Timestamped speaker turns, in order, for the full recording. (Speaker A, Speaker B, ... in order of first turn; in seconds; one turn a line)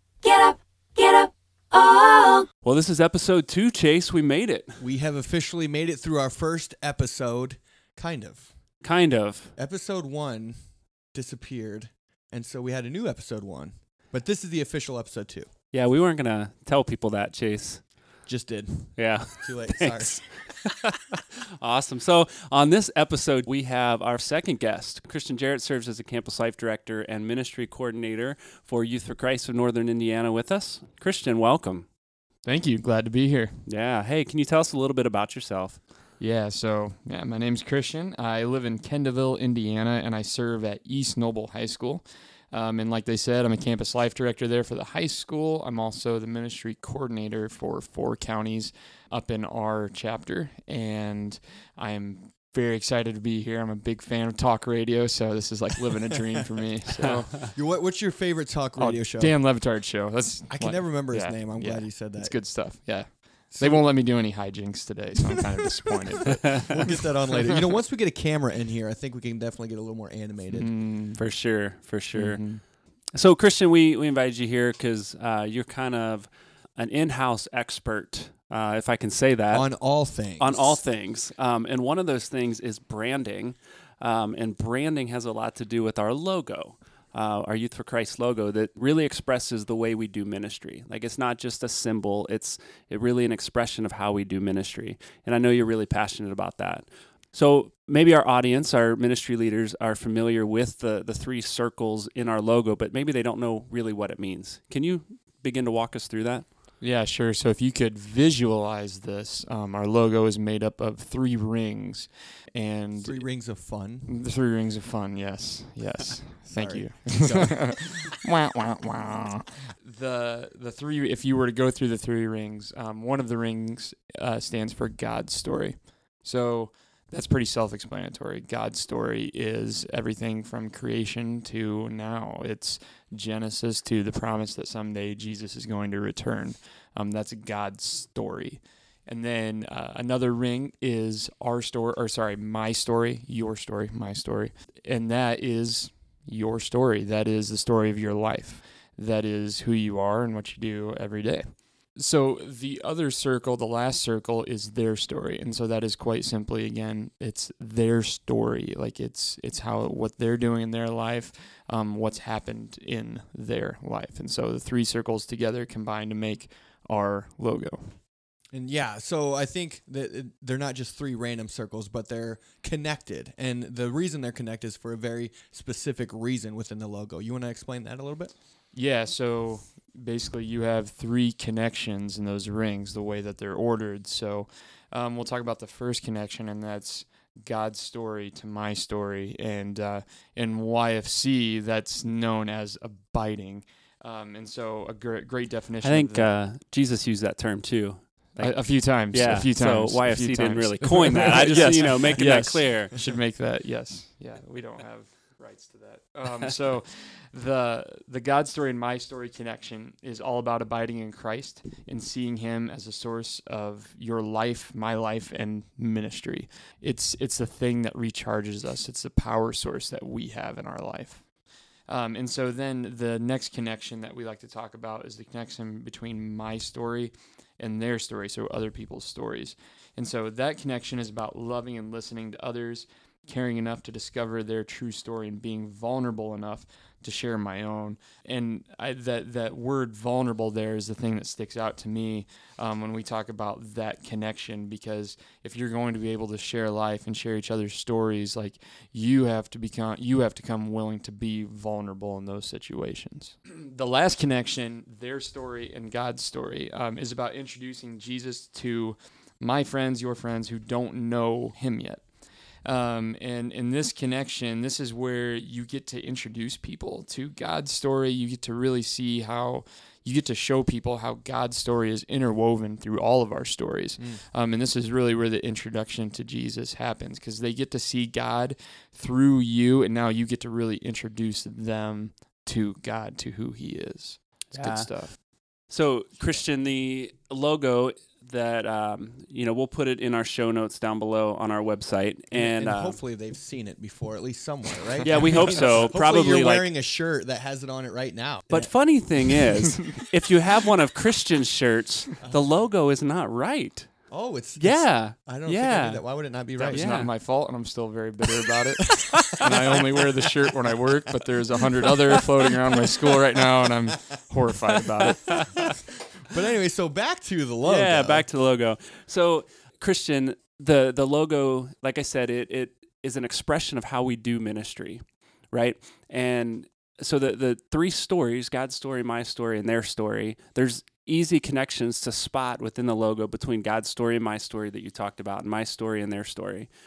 Speaker A: 0.2-2.5
Speaker B: 2.6-4.8
Speaker C: 4.8-8.8
Speaker B: 8.8-9.5
Speaker C: 9.6-15.5
Speaker B: 15.7-18.1
Speaker C: 18.3-20.6
Speaker B: 18.9-20.7
Speaker B: 21.6-31.9
Speaker D: 32.4-33.6
Speaker B: 33.7-35.9
Speaker D: 36.2-57.5
Speaker C: 57.5-59.7
Speaker D: 58.8-67.1
Speaker C: 60.5-62.9
Speaker C: 63.5-64.0
Speaker C: 66.5-70.7
Speaker D: 70.5-71.5
Speaker B: 71.2-106.5
Speaker D: 72.1-72.6
Speaker C: 79.5-80.8
Speaker D: 106.8-168.0
Speaker C: 113.0-114.1
Speaker C: 116.5-117.8
Speaker C: 168.5-178.3
Speaker D: 178.7-196.3
Speaker B: 195.8-202.9
Speaker D: 198.4-221.3
Speaker D: 221.8-262.1
Speaker D: 262.6-285.2
Speaker C: 274.0-274.2
Speaker B: 284.5-293.0
Speaker C: 292.3-299.4
Speaker B: 295.0-296.7
Speaker B: 298.5-307.1
Speaker C: 302.2-302.5
Speaker C: 304.1-307.1
Speaker D: 306.6-315.7
Speaker C: 316.3-318.3
Speaker B: 317.6-336.7